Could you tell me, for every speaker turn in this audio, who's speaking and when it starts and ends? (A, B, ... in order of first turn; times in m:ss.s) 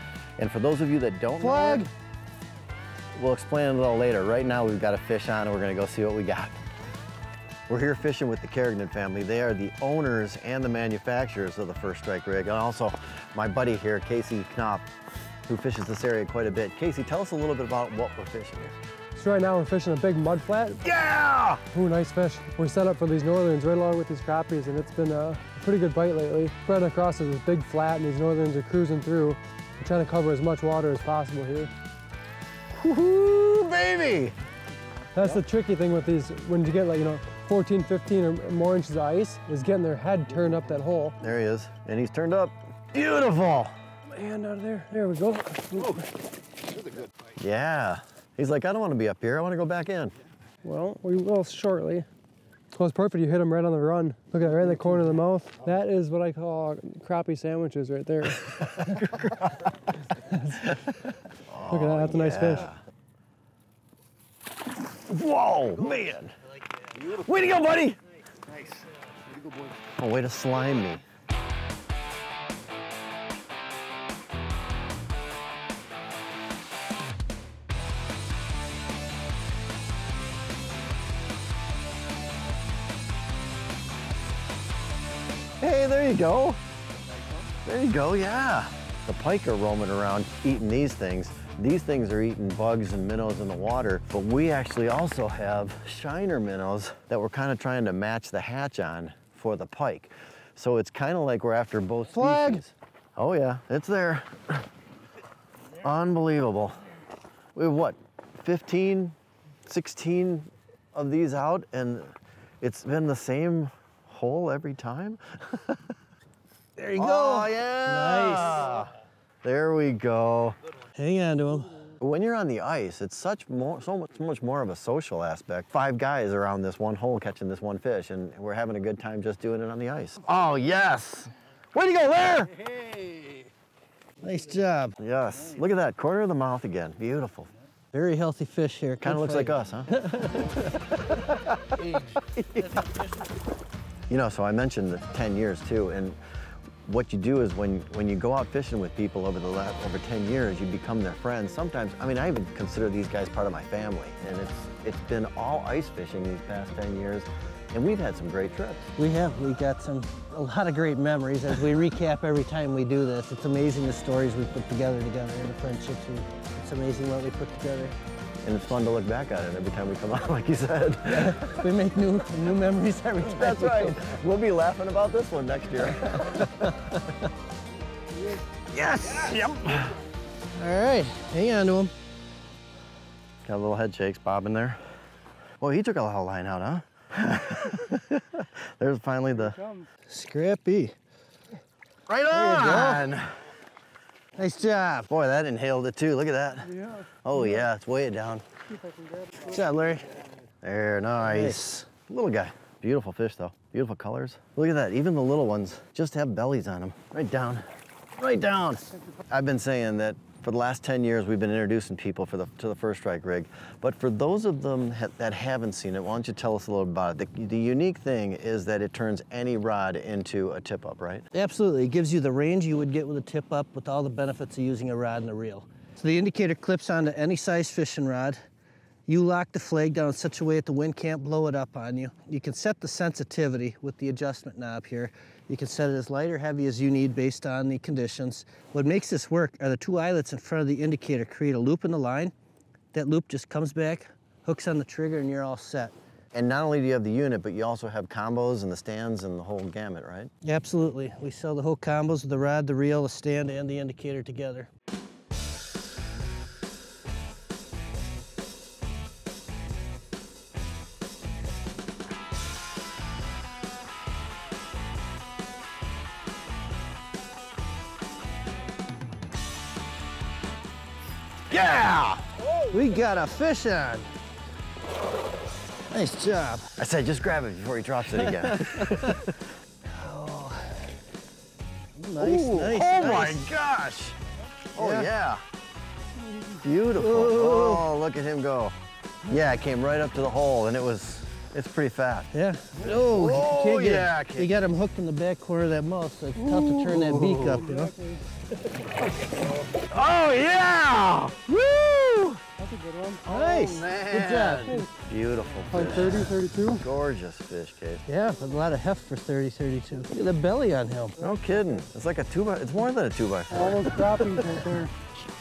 0:00.4-0:01.8 A
0:01.4-0:01.9 B
0:03.1-0:06.5 A
0:07.7-0:14.8 A
0:15.5-0:18.8 A
0:19.2-0:20.9 C
0:20.8-0:21.6 A
0:21.7-0:31.7 C
0:32.7-0:34.3 A
0:35.1-0:41.2 C
0:41.2-0:43.7 A
0:44.1-0:46.1 C
0:47.4-0:50.1 A
0:50.6-0:52.1 C
0:52.7-0:59.1 C
0:58.8-0:59.5 A
1:00.1-1:00.7 C
1:01.5-1:02.8 A
1:01.7-1:02.7 C
1:04.9-1:06.3 A
1:07.0-1:08.0 A
1:09.9-1:11.0 A
1:25.6-1:26.6 A
1:27.6-1:44.6 A
1:42.1-1:42.6 B
1:45.8-1:46.8 A
1:47.5-1:49.1 A
1:49.6-1:55.8 A
1:56.8-1:58.9 B
1:57.0-1:58.9 A
1:59.4-2:00.6 A
2:01.0-2:01.8 B
2:02.0-2:12.7 A
2:14.2-2:15.0 B
2:15.0-2:17.5 A
2:17.9-2:20.9 B
2:19.0-2:19.9 A
2:21.1-2:21.6 A
2:21.7-2:23.3 B
2:24.1-2:26.2 A
2:26.8-2:38.9 A
2:39.0-2:48.0 B
2:48.4-2:51.7 A
2:51.1-2:54.0 B
2:53.2-2:56.5 A
2:56.1-2:57.0 B
2:58.7-2:59.9 B
3:00.6-3:01.9 B
3:03.4-3:04.8 A
3:05.6-3:09.6 A
3:10.1-3:10.9 B
3:12.1-3:13.4 A
3:12.3-3:13.1 B
3:14.4-3:15.1 B
3:15.1-3:18.4 A
3:19.3-3:20.1 B
3:20.6-3:41.2 A
3:21.2-3:21.9 B
3:41.3-3:48.4 B
3:49.1-4:02.3 B
4:02.9-4:05.9 B
4:06.3-4:10.3 A
4:10.4-4:14.7 B
4:31.5-4:32.2 A
4:32.6-4:34.1 B
4:35.9-4:36.7 B
4:36.8-4:39.3 A
4:38.2-4:39.2 B
4:39.9-4:41.0 B
4:42.0-4:43.5 B
4:42.2-4:44.2 A
4:44.8-4:45.4 A
4:44.8-4:45.1 B
4:46.6-4:52.3 A
4:46.9-4:47.9 B
4:52.3-4:57.9 B
4:52.9-4:54.5 A
4:56.4-4:57.6 A
4:59.9-5:02.2 A
5:00.1-5:02.4 B
5:02.6-5:03.2 C
5:03.2-5:08.0 A
5:03.2-5:04.8 B
5:05.7-5:06.8 C
5:08.1-5:11.2 B
5:11.2-5:14.7 A
5:13.5-5:14.9 C